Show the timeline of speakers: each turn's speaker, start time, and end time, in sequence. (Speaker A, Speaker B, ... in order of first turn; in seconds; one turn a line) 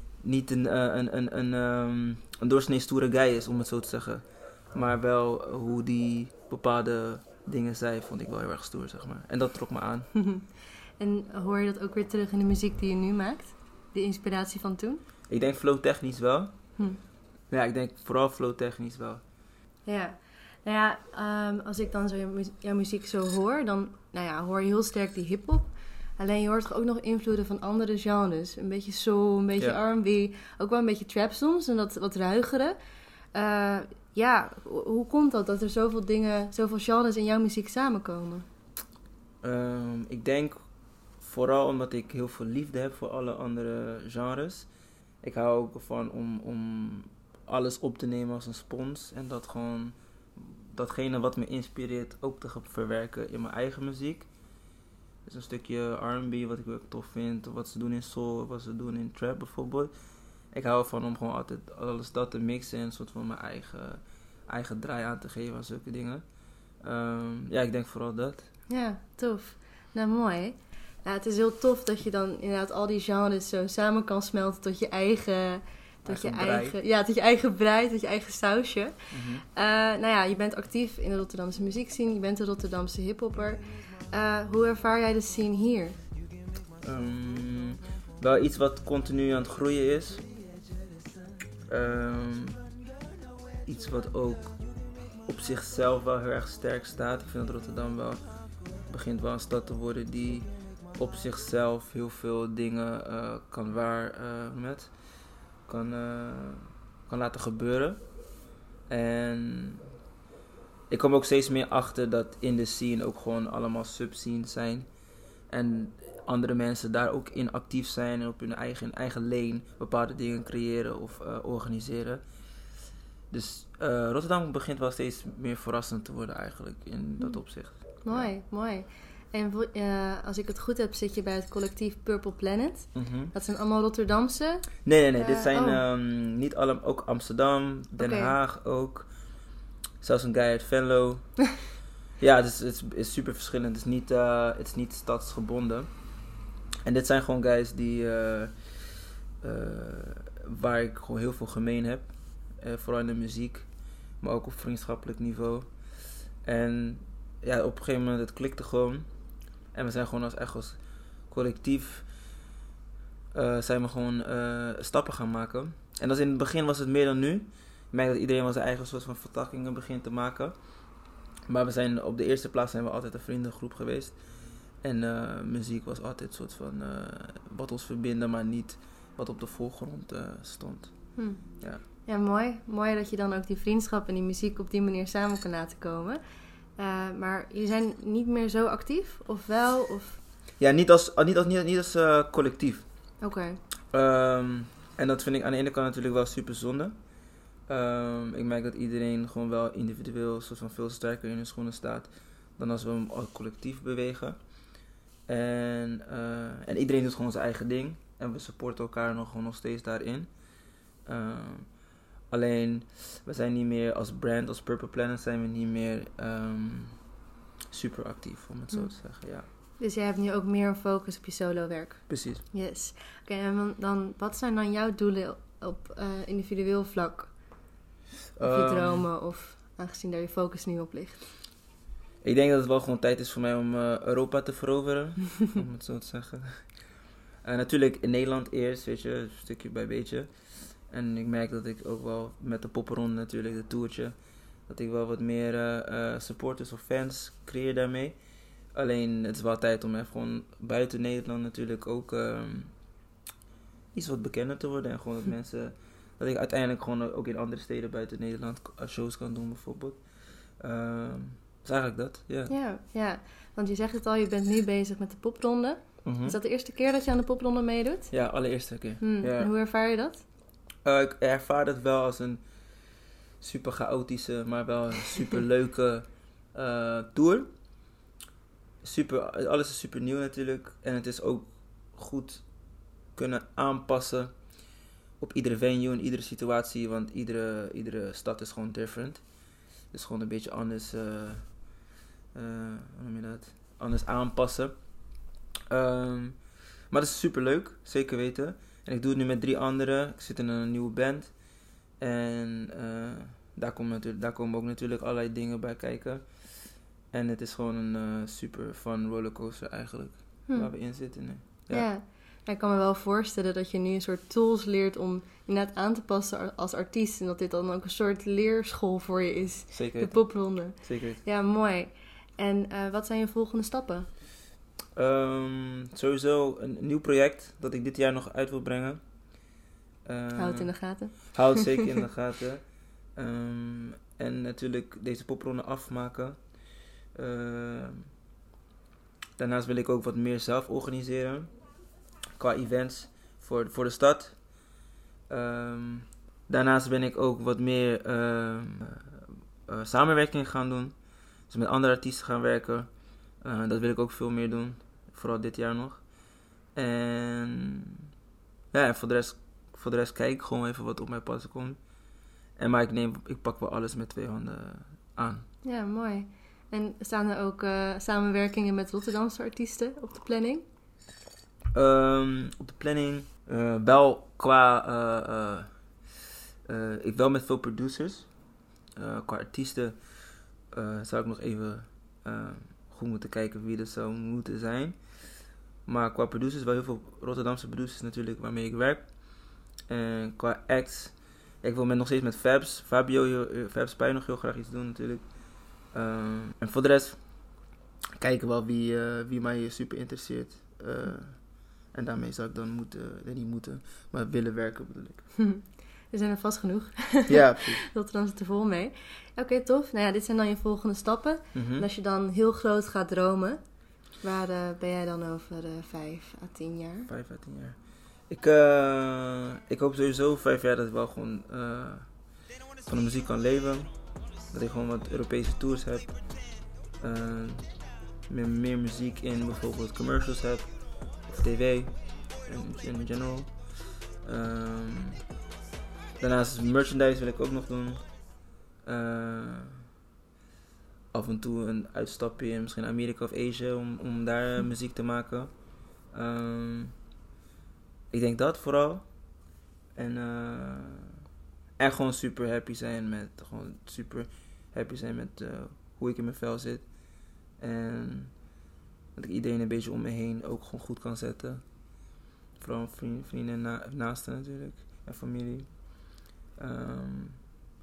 Speaker A: 0.2-10.1
Speaker B: 10.2-10.5
Speaker B: 11.0-15.0
Speaker A: 15.3-16.7
Speaker A: 17.5-19.2
Speaker B: 19.9-32.8
Speaker B: 33.3-38.5
Speaker A: 39.4-40.6
Speaker A: 41.2-44.7
Speaker A: 45.2-54.3
Speaker A: 55.2-59.9
Speaker A: 60.5-66.2
Speaker A: 66.8-68.5
Speaker B: 68.7-86.0
Speaker A: 76.0-76.8
Speaker A: 79.1-79.4
Speaker A: 86.8-90.2
Speaker A: 91.7-92.6
Speaker A: 93.6-94.6
Speaker A: 95.2-98.2
Speaker A: 98.9-104.9
Speaker A: 105.6-108.0
Speaker A: 108.9-109.8
Speaker A: 110.9-114.9
Speaker A: 115.5-122.2
Speaker A: 123.3-128.3
Speaker B: 127.2-135.8
Speaker A: 132.9-133.3
Speaker A: 134.8-139.1
Speaker B: 138.0-138.3
Speaker A: 140.0-141.4
Speaker A: 142.2-145.9
Speaker A: 146.8-148.8
Speaker A: 149.4-155.7
Speaker A: 156.4-159.1
Speaker A: 159.7-162.1
Speaker A: 163.3-170.6
Speaker A: 171.5-174.2
Speaker A: 174.8-181.8
Speaker B: 181.2-186.2
Speaker B: 186.8-190.2
Speaker A: 190.6-192.9
Speaker B: 193.2-193.6
Speaker A: 193.9-197.0
Speaker A: 197.7-204.4
Speaker A: 205.3-210.3
Speaker A: 211.0-217.1
Speaker A: 217.7-219.5
Speaker B: 219.5-227.3
Speaker A: 222.1-222.4
Speaker A: 228.3-229.1
Speaker B: 228.4-231.2
Speaker A: 232.2-236.8
Speaker A: 237.4-240.3
Speaker A: 240.8-244.2
Speaker A: 244.7-248.2
Speaker A: 248.7-252.7
Speaker A: 253.9-260.0
Speaker A: 260.6-262.5
Speaker B: 262.5-268.1
Speaker A: 266.0-266.4
Speaker A: 268.1-269.5
Speaker B: 269.0-270.2
Speaker A: 270.8-272.4
Speaker A: 273.4-277.5
Speaker A: 278.8-284.6
Speaker A: 285.2-291.8
Speaker A: 292.3-295.0
Speaker A: 295.7-311.9
Speaker B: 310.5-310.9
Speaker B: 311.7-324.1
Speaker A: 319.7-321.2
Speaker A: 324.9-329.0
Speaker A: 330.0-336.6
Speaker B: 330.3-331.7
Speaker A: 337.1-338.0
Speaker A: 339.4-341.5
Speaker A: 342.4-344.6
Speaker A: 345.3-349.1
Speaker A: 349.7-350.9
Speaker A: 351.5-357.9
Speaker A: 358.7-361.8
Speaker A: 362.6-365.4
Speaker B: 365.6-370.6
Speaker A: 371.7-375.8
Speaker A: 376.7-378.3
Speaker A: 378.9-380.2
Speaker A: 380.7-385.2
Speaker A: 385.8-397.6
Speaker A: 398.2-405.3
Speaker B: 405.4-413.6
Speaker A: 407.3-407.8
Speaker A: 411.5-411.9
Speaker B: 414.2-417.1
Speaker A: 417.1-426.4
Speaker A: 427.0-435.2
Speaker A: 436.2-438.1
Speaker A: 438.8-439.8
Speaker A: 441.1-446.9
Speaker A: 448.1-449.1
Speaker A: 449.9-451.1
Speaker A: 451.8-458.4
Speaker A: 459.1-461.6
Speaker A: 462.6-467.5